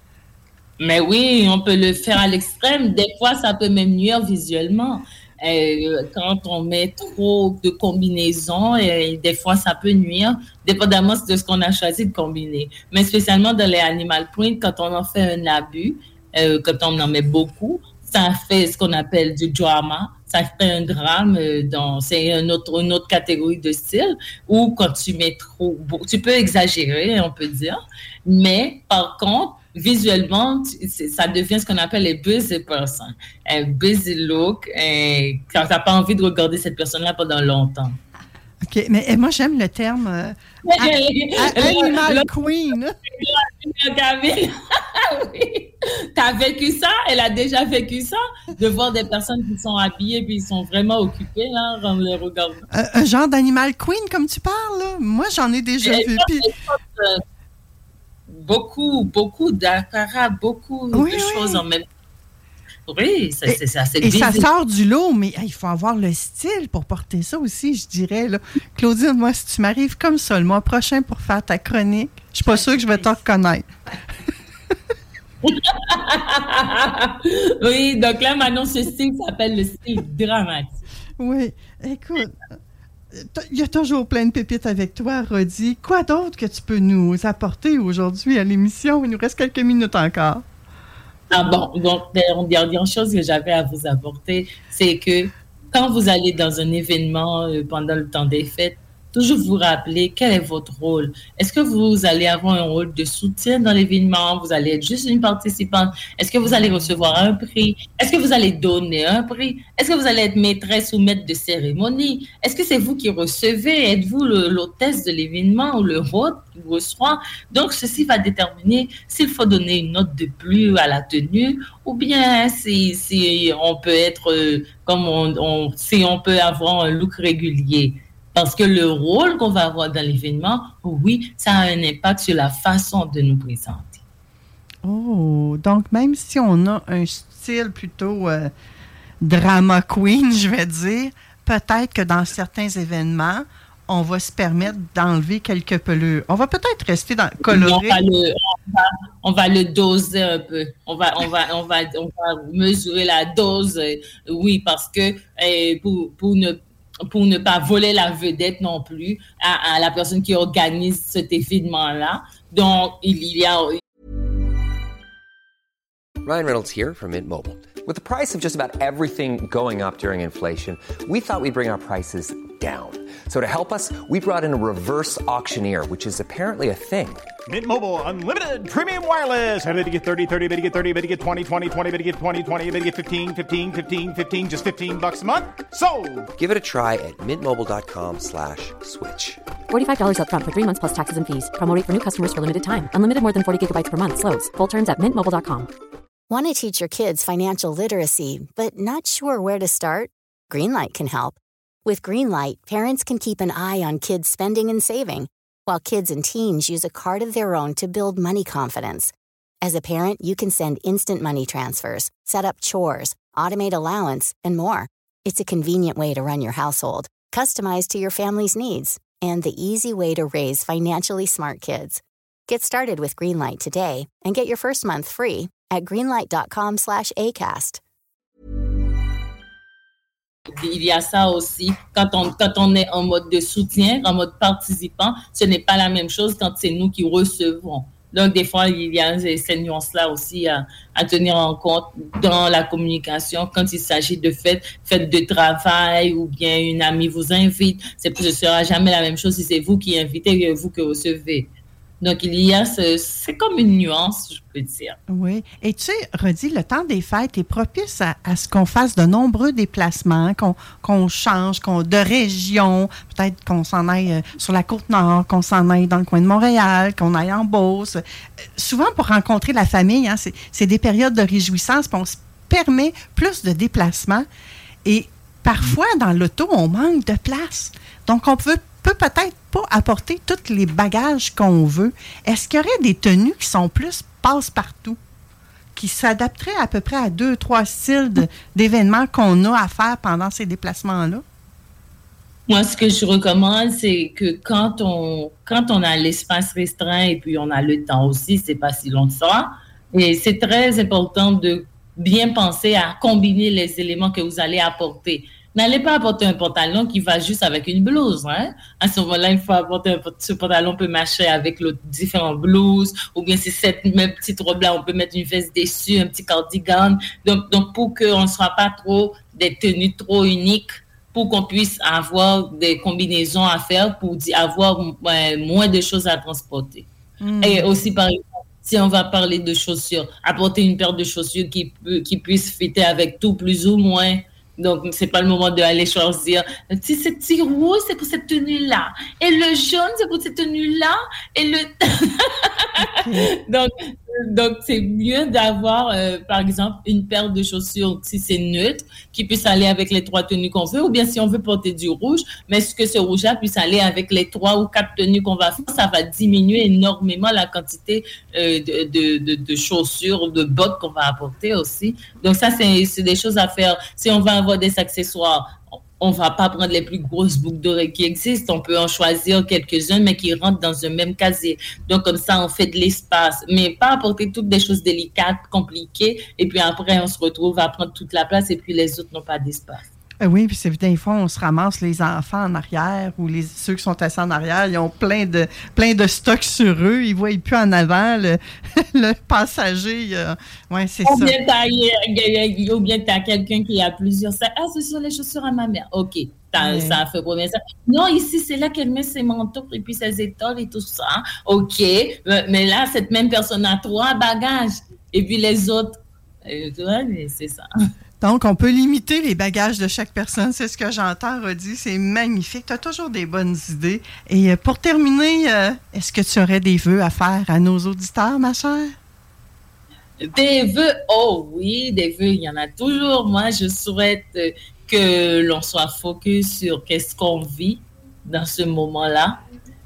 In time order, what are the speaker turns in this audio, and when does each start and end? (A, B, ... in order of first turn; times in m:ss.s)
0:00.8-0:38.0 A
0:38.6-0:43.0 B
0:40.7-0:42.3 A
0:43.1-0:52.6 A
0:52.7-0:56.4 B
0:55.8-0:57.2 A
0:58.3-1:01.8 A
1:00.9-1:01.6 B
1:02.9-1:04.5 A
1:03.4-1:13.7 B
1:15.4-1:20.8 A
1:21.2-1:22.4 B
1:23.1-1:30.4 B
1:31.3-2:14.0 A
2:14.8-2:18.5 B
2:19.2-2:28.0 B
2:27.4-2:43.8 A
2:46.2-2:57.3 C
2:57.4-3:06.3 D
3:06.3-3:09.4 C
3:09.7-3:15.7 E
3:16.3-3:47.8 F
3:50.6-4:15.0 A
4:15.1-4:28.0 B
4:28.6-4:34.2 B
4:34.8-4:45.0 B
4:45.8-4:51.2 B
4:52.5-5:26.8 A
5:27.2-5:27.7 B
5:27.4-6:19.8 A
5:42.8-5:43.3 B
6:20.2-6:31.4 B
6:31.0-6:47.6 A
6:36.6-6:37.0 B
6:48.2-6:58.9 B
7:00.2-7:09.4 A